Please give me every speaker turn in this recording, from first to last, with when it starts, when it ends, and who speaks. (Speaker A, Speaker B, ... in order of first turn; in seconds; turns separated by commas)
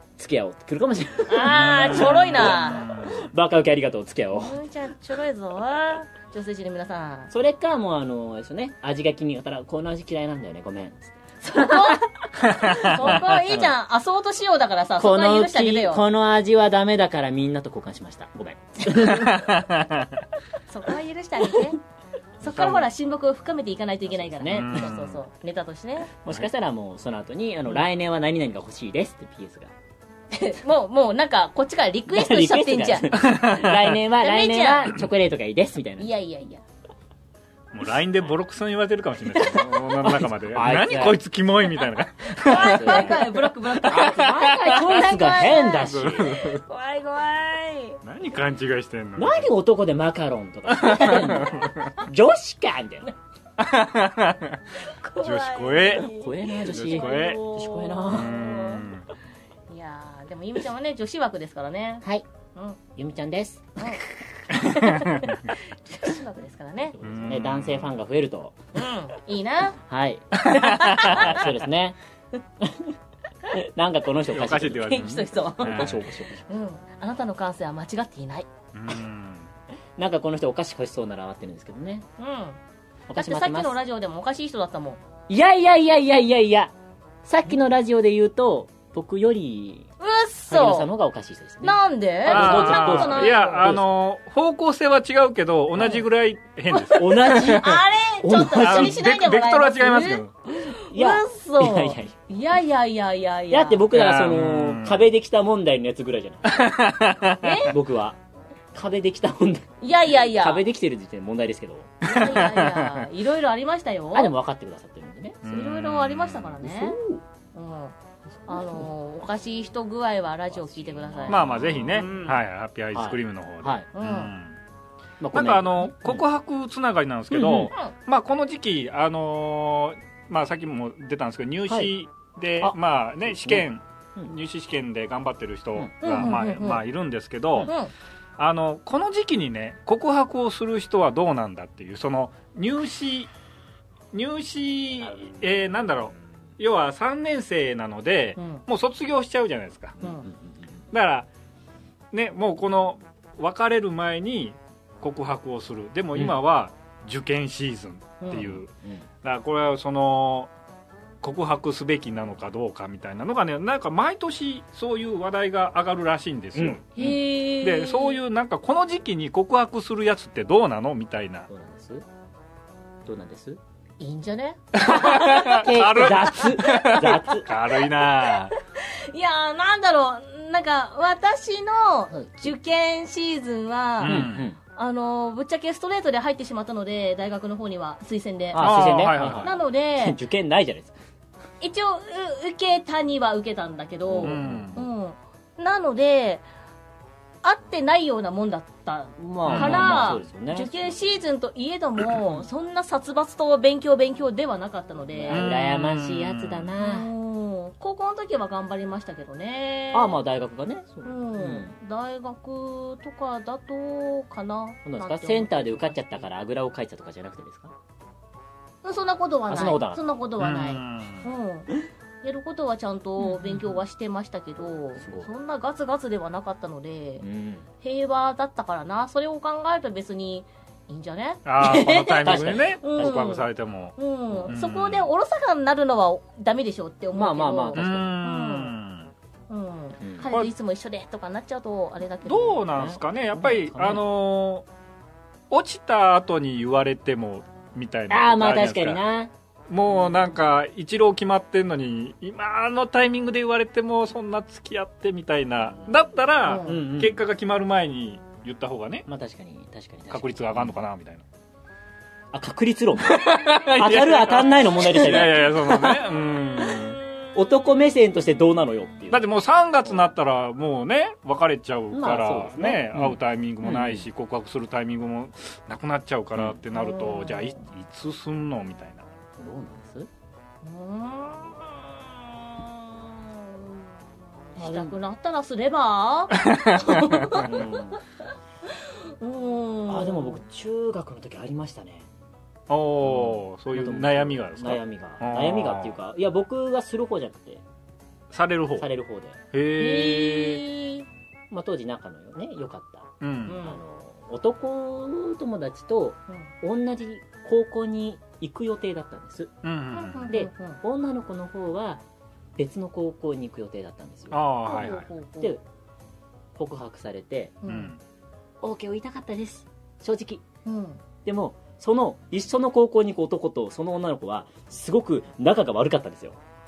Speaker A: 0.2-4.6, Speaker B: 1.3-2.9, Speaker C: 1.5-3.2, Speaker B: 4.3-7.3, Speaker A: 7.3-12.0, Speaker B: 11.4-16.0, Speaker C: 12.5-13.1, Speaker A: 12.6-13.7, Speaker A: 15.0-19.6, Speaker C: 19.2-20.1, Speaker B: 20.7-21.8, Speaker B: 22.4-26.1, Speaker C: 22.4-22.9, Speaker A: 24.1-25.0, Speaker C: 24.5-25.2, Speaker A: 26.1-29.7, Speaker B: 30.3-33.3, Speaker A: 32.1-36.1, Speaker C: 33.2-34.0, Speaker B: 34.1-35.0, Speaker B: 36.0-36.6, Speaker C: 37.7-43.2, Speaker A: 39.4-41.2, Speaker A: 42.5-43.3, Speaker B: 42.5-48.0, Speaker A: 43.8-46.4, Speaker C: 43.9-44.6, Speaker C: 45.7-46.6, Speaker C: 48.0-49.5, Speaker A: 49.2-53.1, Speaker C: 50.8-51.8, Speaker B: 50.8-52.0, Speaker C: 53.6-54.6, Speaker B: 54.8-58.9, Speaker C: 55.2-56.1, Speaker A: 56.0-58.5, Speaker C: 56.6-57.5, Speaker C: 58.1-59.1, Speaker B: 59.7-62.8, Speaker A: 63.0-64.6, Speaker B: 63.8-67.0, Speaker A: 66.9-68.6, Speaker C: 67.0-67.9, Speaker B: 68.8-69.8, Speaker A: 69.8-72.0, Speaker B: 70.4-71.5, Speaker C: 70.9-71.2, Speaker A: 72.6-73.0, Speaker A: 73.5-75.0, Speaker C: 74.3-76.1, Speaker B: 74.8-78.5, Speaker A: 75.6-76.5, Speaker C: 78.7-79.5, Speaker A: 80.0-82.0, Speaker B: 82.2-82.6, Speaker A: 83.1-83.8, Speaker B: 83.2-85.0, Speaker A: 85.3-89.9, Speaker B: 90.0-90.9, Speaker A: 90.5-93.8, Speaker B: 91.6-93.8, Speaker C: 92.3-97.7, Speaker A: 95.8-96.0, Speaker B: 96.8-103.9, Speaker A: 96.9-99.0, Speaker C: 98.4-100.3, Speaker A: 100.8-102.1, Speaker A: 103.5-106.6, Speaker C: 103.9-105.0, Speaker C: 106.5-107.7, Speaker B: 107.4-107.8, Speaker A: 107.7-108.2, Speaker A: 108.7-112.5, Speaker B: 109.8-110.7, Speaker B: 112.0-114.3, Speaker C: 112.2-113.0, Speaker A: 114.1-115.4, Speaker C: 115.4-116.6, Speaker B: 115.4-117.0, Speaker A: 116.6-117.2, Speaker B: 117.5-118.0, Speaker B: 118.5-122.3, Speaker A: 118.5-118.9, Speaker A: 120.5-122.2, Speaker C: 121.3-124.6, Speaker A: 122.9-123.9, Speaker B: 124.0-124.3, Speaker A: 125.2-126.2, Speaker C: 125.3-137.7, Speaker A: 127.3-127.7, Speaker A: 132.6-133.7, Speaker A: 135.8-136.4, Speaker B: 136.0-136.8, Speaker B: 137.7-137.9, Speaker C: 138.4-143.3, Speaker C: 144.1-150.0, Speaker B: 148.4-148.6, Speaker A: 150.0-150.7, Speaker B: 150.0-150.3, Speaker C: 150.9-151.3, Speaker C: 152.1-158.7, Speaker B: 158.2-158.6, Speaker C: 159.2-160.5, Speaker C: 161.2-171.5, Speaker A: 166.6-167.2, Speaker B: 167.0-168.2, Speaker A: 171.5-172.1, Speaker A: 173.1-173.6, Speaker B: 174.0-175.7, Speaker C: 174.8-178.6, Speaker A: 174.8-177.5, Speaker B: 176.4-177.1, Speaker B: 178.0-188.7, Speaker A: 182.1-182.5, Speaker C: 184.0-184.5, Speaker A: 184.0-184.6, Speaker A: 188.5-190.9, Speaker C: 188.6-189.6, Speaker B: 189.2-190.2, Speaker B: 191.6-196.5, Speaker A: 194.1-194.9, Speaker C: 194.2-194.8, Speaker B: 197.4-205.5, Speaker A: 199.2-201.0, Speaker C: 199.5-200.2, Speaker A: 205.1-207.1, Speaker C: 205.3-206.7, Speaker B: 206.8-210.2, Speaker A: 209.9-211.7, Speaker B: 211.0-216.0, Speaker A: 214.8-217.8, Speaker B: 218.8-221.7, Speaker A: 219.5-220.0, Speaker C: 220.4-221.3, Speaker B: 222.2-227.2, Speaker A: 223.2-223.8, Speaker A: 225.0-225.3, Speaker A: 227.2-227.7, Speaker B: 227.8-238.7, Speaker C: 231.4-234.0, Speaker A: 232.2-233.2, Speaker C: 234.5-235.1, Speaker A: 237.1-238.2, Speaker C: 237.8-239.1, Speaker B: 239.5-242.7, Speaker A: 240.0-240.3, Speaker C: 242.2-244.7, Speaker A: 242.7-244.1, Speaker C: 245.5-249.0, Speaker A: 248.1-249.3, Speaker C: 249.7-259.1, Speaker B: 256.5-256.8, Speaker A: 256.6-257.2, Speaker A: 259.1-260.8, Speaker C: 260.1-261.2, Speaker A: 262.3-266.1, Speaker C: 263.0-267.0, Speaker A: 267.4-269.3, Speaker C: 269.1-279.1, Speaker A: 271.9-274.1, Speaker A: 276.4-276.6, Speaker B: 276.7-277.6, Speaker A: 279.4-280.1, Speaker B: 280.6-283.9, Speaker B: 284.5-287.9, Speaker A: 284.6-284.9, Speaker C: 286.4-287.4, Speaker A: 287.3-288.0, Speaker B: 288.7-290.4, Speaker A: 289.9-292.1, Speaker C: 292.7-296.0, Speaker A: 293.0-297.6, Speaker C: 298.3-298.9, Speaker A: 298.8-299.4, Speaker C: 299.5-300.6, Speaker B: 299.8-301.1, Speaker A: 301.5-309.5, Speaker C: 303.2-303.6, Speaker B: 303.5-303.8, Speaker C: 309.6-310.3, Speaker B: 309.9-310.8, Speaker A: 310.3-312.0, Speaker A: 312.6-314.4, Speaker C: 314.3-315.1, Speaker B: 314.7-315.6, Speaker A: 316.6-317.6, Speaker B: 317.6-317.9, Speaker C: 317.7-318.0, Speaker A: 318.6-320.4, Speaker B: 320.7-321.0, Speaker A: 321.2-326.4